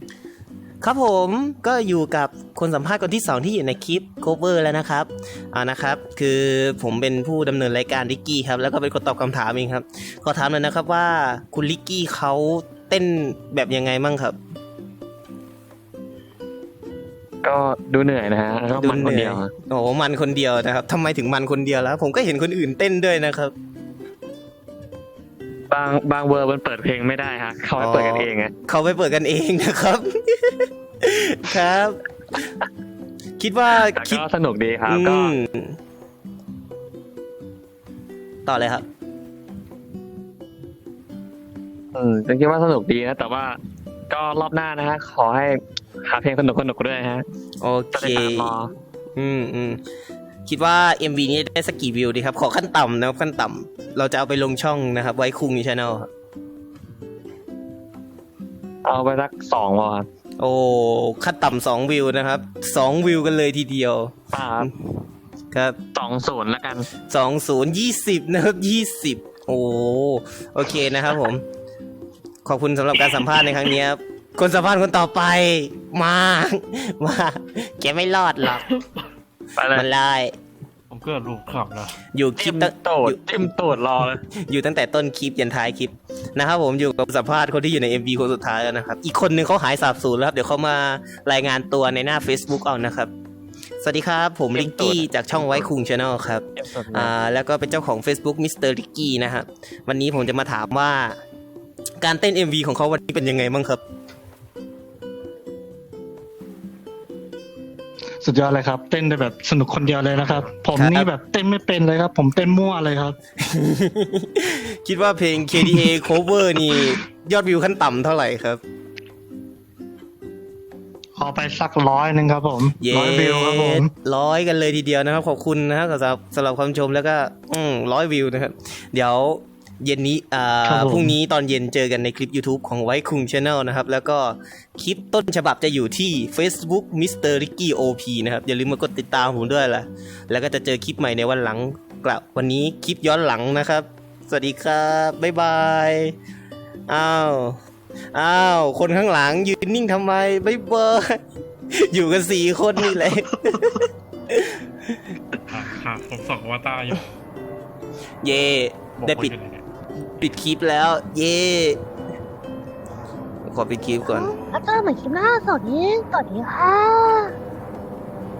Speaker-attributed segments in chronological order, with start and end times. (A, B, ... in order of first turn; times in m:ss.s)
0:00.8-0:14.4 A
0:17.4-0:19.5 B
0:18.7-0:23.5 A
0:25.7-0:28.5 B
0:27.8-0:32.4 A
0:33.4-0:34.2 A
0:33.9-0:35.3 B
0:34.8-0:35.8 A
0:38.4-0:38.8 A
0:41.9-0:43.6 B
0:44.1-0:47.2 B
0:47.6-0:48.6 A
0:47.9-0:48.7 B
0:49.2-0:49.8 A
0:50.4-0:56.1 A
0:58.8-1:00.1 B
1:00.4-1:04.8 A
1:04.3-1:04.7 B
1:05.5-1:05.8 A
1:05.9-1:06.9 B
1:07.1-1:11.4 A
1:12.4-1:18.6 A
1:19.6-1:19.9 B
1:19.7-1:20.3 A
1:20.9-1:22.0 C
1:22.1-1:23.5 A
1:22.4-1:24.2 B
1:24.3-1:33.1 A
1:33.8-1:41.2 A
1:34.5-1:35.7 B
1:36.6-1:37.1 B
1:42.0-1:43.8 A
1:48.2-1:53.2 D
1:50.1-1:50.5 C
1:50.7-1:51.1 A
1:53.4-1:58.6 A
1:55.6-1:55.8 D
2:01.2-2:03.9 D
2:02.8-2:26.2 A
2:10.6-2:11.1 D
2:26.9-2:27.6 A
2:28.1-2:31.2 A
2:31.7-2:35.1 A
2:35.5-2:37.1 C
2:38.2-2:39.3 A
2:39.0-2:39.6 C
2:40.2-2:41.8 A
2:43.4-2:44.3 A
2:44.1-2:47.3 E